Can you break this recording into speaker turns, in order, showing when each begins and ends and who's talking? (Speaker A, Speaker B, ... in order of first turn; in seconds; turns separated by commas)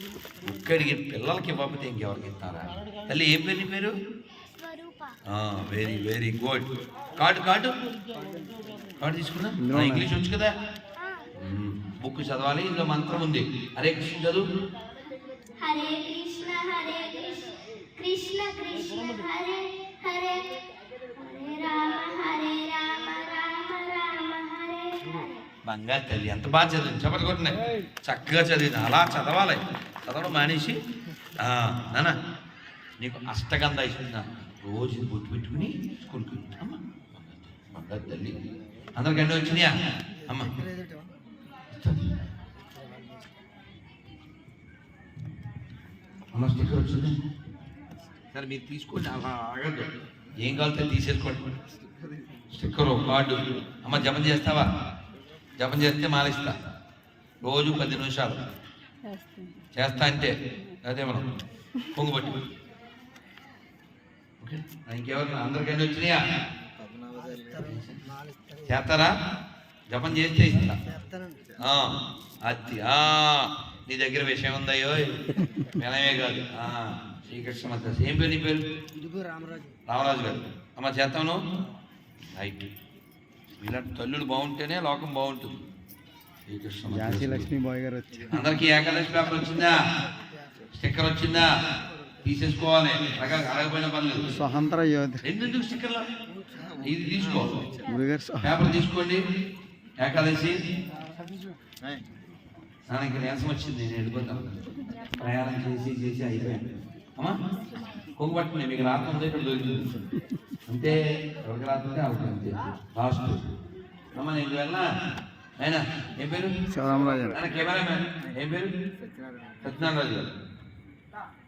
Speaker A: 0.4-3.9, Speaker B: 4.6-5.2, Speaker A: 5.3-6.6, Speaker A: 7.2-7.7, Speaker A: 9.0-10.5, Speaker C: 9.6-10.1, Speaker A: 11.3-14.4, Speaker B: 15.6-20.6, Speaker B: 21.1-25.4, Speaker A: 25.6-30.7, Speaker A: 31.4-32.1, Speaker A: 33.0-38.4, Speaker A: 39.0-39.7, Speaker A: 41.7-42.1, Speaker A: 46.3-47.1, Speaker A: 48.3-51.4, Speaker A: 52.5-54.6, Speaker A: 55.6-56.5, Speaker A: 57.4-58.4, Speaker A: 59.7-61.2, Speaker A: 61.9-62.4, Speaker A: 64.4-66.2, Speaker A: 67.6-68.0, Speaker A: 68.7-69.1, Speaker A: 69.9-70.8, Speaker A: 71.6-71.9, Speaker A: 72.4-75.2, Speaker A: 75.8-78.6, Speaker A: 79.9-81.4, Speaker A: 82.3-82.7, Speaker A: 83.6-85.6, Speaker A: 86.5-87.5, Speaker C: 86.9-88.4, Speaker A: 88.3-89.8, Speaker A: 90.7-91.5, Speaker A: 92.2-94.2, Speaker C: 94.3-95.2, Speaker A: 95.2-96.0, Speaker A: 96.8-97.5, Speaker C: 97.9-98.5, Speaker A: 98.4-99.2, Speaker A: 100.0-100.6, Speaker A: 102.9-104.6, Speaker A: 105.2-106.6, Speaker A: 108.2-109.8, Speaker A: 110.7-113.5, Speaker A: 114.1-114.9, Speaker A: 115.6-116.5, Speaker C: 116.7-117.4, Speaker A: 117.3-118.7, Speaker A: 119.6-120.3